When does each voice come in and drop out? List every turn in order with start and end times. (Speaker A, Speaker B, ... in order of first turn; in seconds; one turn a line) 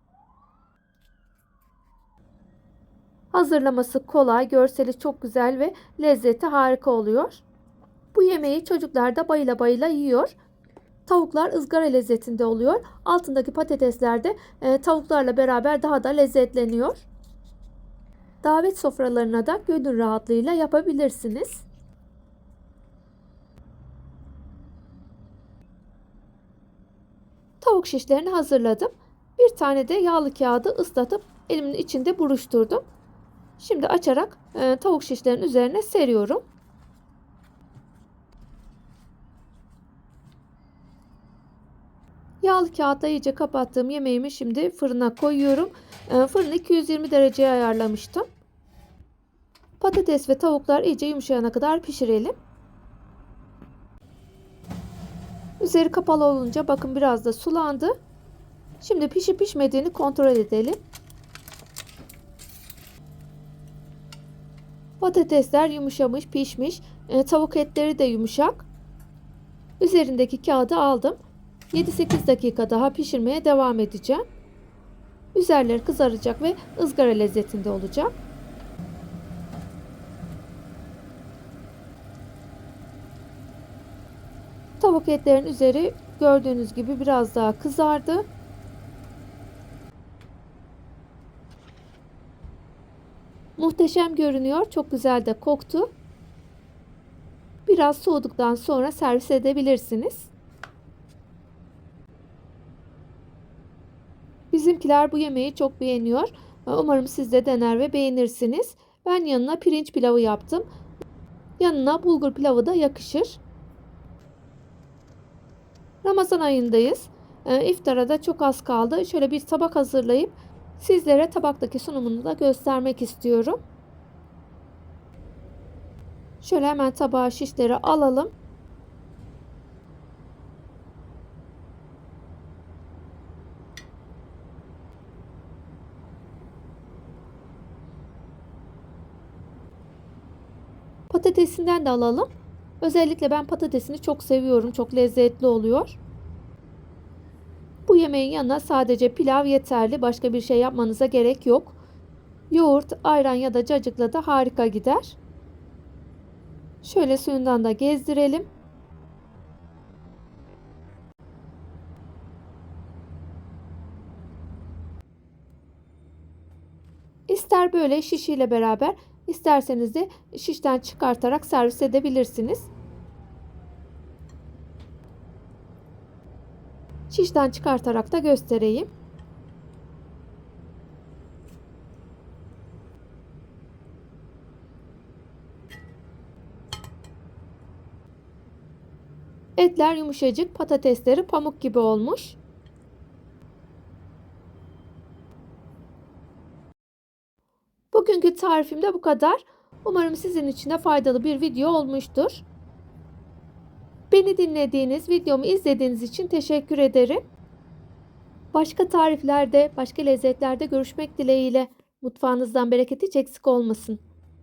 Speaker A: 3.3-7.4
Speaker A: 8.1-10.3
Speaker A: 11.1-17.1
Speaker A: 18.4-21.6
Speaker A: 27.6-32.8
Speaker A: 33.6-36.4
Speaker A: 42.4-48.3
Speaker A: 49.8-52.4
Speaker A: 55.6-58.0
Speaker A: 58.8-60.8
Speaker A: 65.0-68.7
Speaker A: 69.8-71.2
Speaker A: 71.7-74.2
Speaker A: 75.3-78.1
Speaker A: 84.8-88.3
Speaker A: 93.6-95.9
Speaker A: 97.7-100.3
Speaker A: 104.5-110.7
Speaker A: 111.6-113.4
Speaker A: 116.0-123.6
Speaker A: 126.4-128.3
Speaker A: 141.1-142.3
Speaker A: 142.8-146.0
Speaker A: 147.9-151.8
Speaker A: 152.5-155.2
Speaker A: 156.8-158.5
Speaker A: 167.3-172.7
Speaker A: 177.1-178.9
Speaker A: 189.6-192.4
Speaker A: 197.9-202.4
Speaker A: 204.1-207.2
Speaker A: 208.5-214.0